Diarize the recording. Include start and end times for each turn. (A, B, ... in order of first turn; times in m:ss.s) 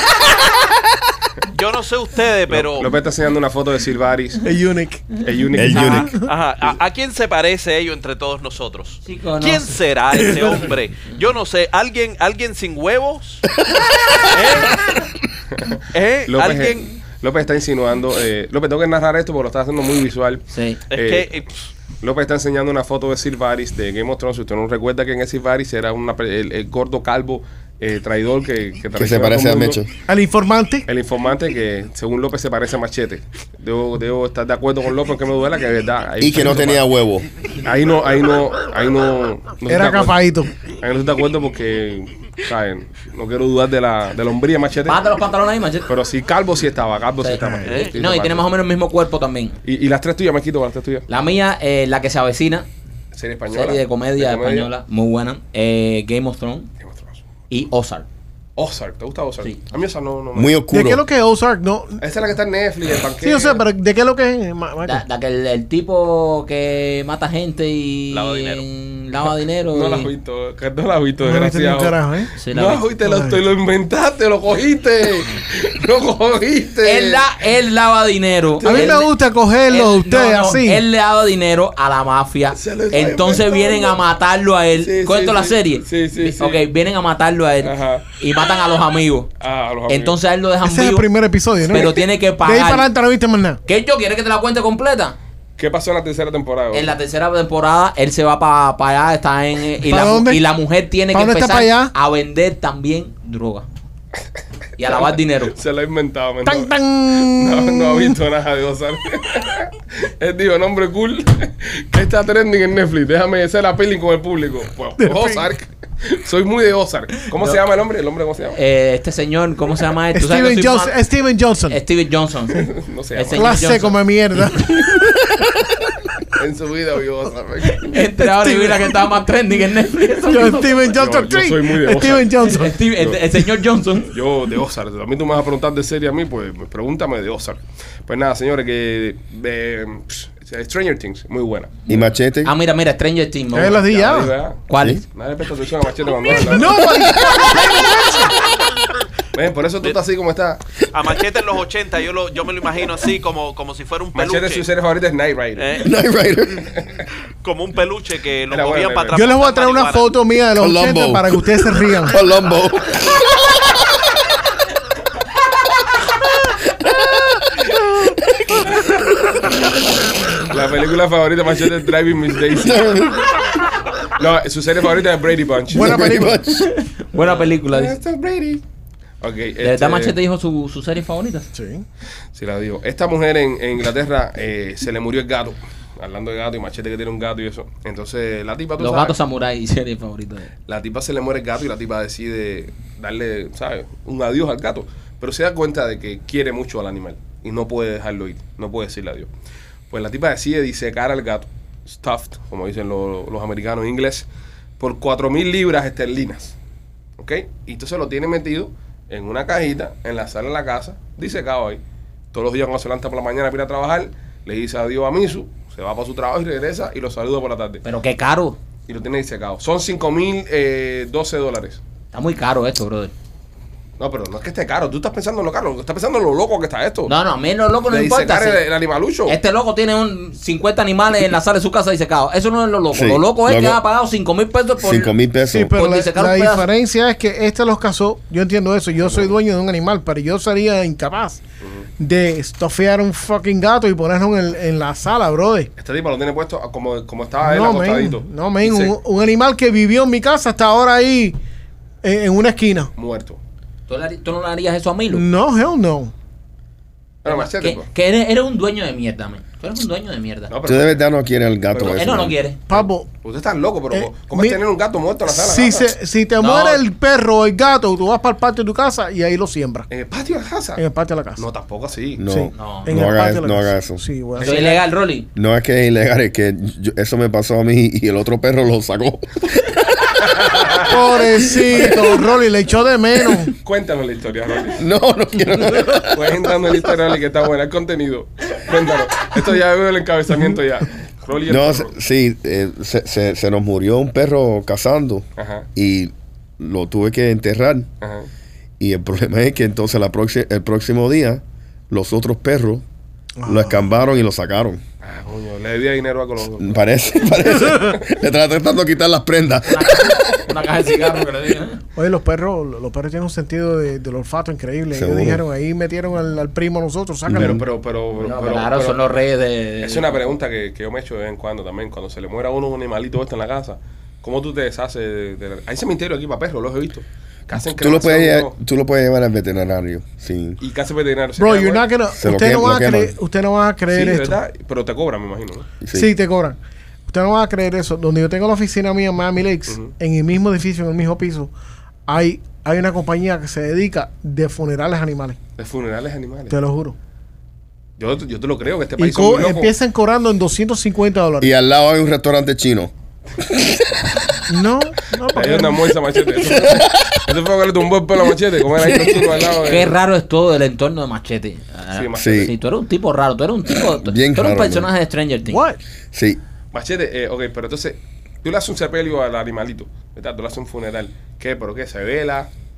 0:01.4-0:02.9 A
0:02.5-0:04.4 B
0:04.4-0:06.3 C
0:05.2-0:06.1 B
0:05.6-0:06.1 D
0:06.1-0:13.5 A
0:09.0-0:09.8 E
0:14.2-0:14.9 A
0:15.6-0:21.3 B
0:15.9-0:16.9 A
0:20.5-0:20.8 E
0:20.9-0:21.5 A
0:22.0-0:29.8 B
0:29.0-0:29.9 D
0:30.1-0:30.9 C
0:30.9-0:36.8 B
0:36.2-0:37.3 D
0:37.6-0:40.2 B
0:39.7-0:40.5 C
0:40.7-0:45.0 B
0:44.9-0:45.9 E
0:45.9-0:48.5 B
0:47.2-0:49.6 E
0:47.4-0:47.7 C
0:49.6-0:51.1 B
0:51.1-0:52.7 E
0:53.1-0:54.7 B
0:53.5-0:56.7 E
0:56.8-0:57.2 B
0:57.5-0:58.1 E
0:58.6-1:00.6 B
1:00.4-1:01.0 D
1:00.7-1:02.0 C
1:02.0-1:03.6 B
1:03.2-1:05.0 C
1:04.8-1:10.1 E
1:08.1-1:08.6 A
1:09.7-1:12.0 B
1:11.2-1:12.3 C
1:12.4-1:12.8 E
1:12.5-1:17.2 B
1:13.0-1:13.4 C
1:16.8-1:19.1 E
1:18.6-1:19.1 B
1:18.6-1:20.8 C
1:19.7-1:29.3 E
1:22.5-1:24.0 B
1:24.8-1:26.6 B
1:27.6-1:28.1 B
1:29.4-1:30.2 B
1:29.9-1:31.1 E
1:30.6-1:33.6 C
1:31.7-1:32.9 E
1:33.7-1:35.2 E
1:35.6-1:36.9 B
1:36.7-1:43.7 E
1:39.8-1:40.4 C
1:41.1-1:41.9 C
1:44.8-1:45.6 E
1:44.8-1:58.6 B
1:46.4-1:48.2 C
1:55.0-1:55.5 C
1:58.5-2:01.0 E
2:00.1-2:01.8 C
2:01.7-2:04.0 E
2:02.6-2:03.7 B
2:03.3-2:05.5 C
2:06.4-2:07.9 B
2:07.8-2:10.8 E
2:08.2-2:08.9 C
2:10.3-2:12.8 C
2:10.9-2:12.4 B
2:12.4-2:14.2 E
2:14.1-2:21.8 B
2:21.9-2:22.5 D
2:22.4-2:23.8 E
2:23.5-2:24.3 C
2:23.6-2:26.9 B
2:24.7-2:25.0 E
2:26.4-2:28.4 C
2:26.6-2:27.7 D
2:29.3-2:30.6 B
2:30.9-2:34.7 A
2:34.1-2:35.8 B
2:35.6-2:35.9 A
2:35.8-2:36.7 D
2:37.4-2:40.2 A
2:38.5-2:39.2 B
2:39.1-2:42.2 C
2:40.6-2:44.1 D
2:46.8-2:48.8 D
2:50.4-2:52.9 B
2:52.6-2:53.6 D
2:54.2-2:56.2 B
2:55.7-2:56.5 C
2:55.8-2:56.7 D
2:56.4-2:58.0 E
2:57.2-2:58.6 B
2:59.2-3:00.2 B
2:59.6-3:01.5 E
3:01.5-3:01.8 C
3:02.4-3:09.2 B
3:08.8-3:10.5 E
3:10.7-3:19.3 B
3:19.9-3:24.3 B
3:24.8-3:26.6 B
3:27.2-3:31.8 B
3:32.3-3:37.8 B
3:37.8-3:38.6 E
3:38.9-3:41.8 B
3:42.1-3:43.1 E
3:44.0-3:47.1 B
3:47.1-3:48.6 E
3:47.9-3:49.4 B
3:49.3-3:55.1 E
3:52.9-3:53.8 D
3:54.8-3:55.8 D
3:55.5-4:01.4 C
3:55.7-3:56.7 E
3:59.0-3:59.4 B
4:01.6-4:01.9 B
4:02.0-4:05.7 C
4:05.8-4:09.0 B
4:07.4-4:11.4 C
4:12.0-4:12.9 C
4:13.0-4:13.4 B
4:13.9-4:15.3 E
4:15.1-4:16.1 C
4:17.2-4:17.9 B
4:17.2-4:20.5 E
4:20.5-4:21.0 B
4:20.6-4:22.4 D
4:21.7-4:22.1 B
4:21.8-4:22.6 E
4:22.7-4:23.1 C
4:22.7-4:25.9 B
4:23.9-4:24.6 C
4:25.3-4:29.9 C
4:26.4-4:26.8 E
4:29.9-4:30.8 B
4:30.8-4:31.4 C
4:31.4-4:32.2 B
4:32.2-4:34.0 D
4:32.3-4:34.8 C
4:32.5-4:33.0 E
4:34.4-4:35.3 E
4:35.4-4:42.2 D
4:40.4-4:40.9 B
4:40.9-4:43.5 C
4:43.6-4:44.8 B
4:44.8-4:46.8 D
4:45.8-4:51.9 B
4:51.5-4:57.9 D
4:55.4-4:55.7 B
4:58.0-4:58.3 B
4:58.8-5:02.8 D
5:03.4-5:03.9 C
5:03.4-5:04.8 D
5:05.0-5:06.8 B
5:06.6-5:10.4 D
5:09.6-5:11.8 E
5:12.0-5:17.6 C
5:14.9-5:15.4 D
5:17.3-5:17.6 D
5:17.3-5:19.0 B
5:18.2-5:20.2 E
5:19.8-5:28.5 B
5:27.7-5:30.6 D
5:30.6-5:31.9 B
5:31.4-5:34.4 C
5:32.2-5:33.1 D
5:33.9-5:35.7 B
5:35.8-5:36.1 D
5:35.9-5:41.5 C
5:39.7-5:39.9 B
5:42.1-5:45.4 C
5:45.6-5:46.6 B
5:46.5-5:47.0 C
5:48.0-5:49.7 B
5:49.0-5:51.5 C
5:51.4-5:54.1 D
5:54.5-5:55.9 C
5:55.3-6:00.0 B
5:56.4-5:57.2 D
5:59.5-6:05.6 E
6:01.9-6:02.5 B
6:02.2-6:02.5 D
6:03.9-6:04.9 D
6:05.4-6:05.8 C
6:06.1-6:06.4 D
6:06.7-6:12.5 B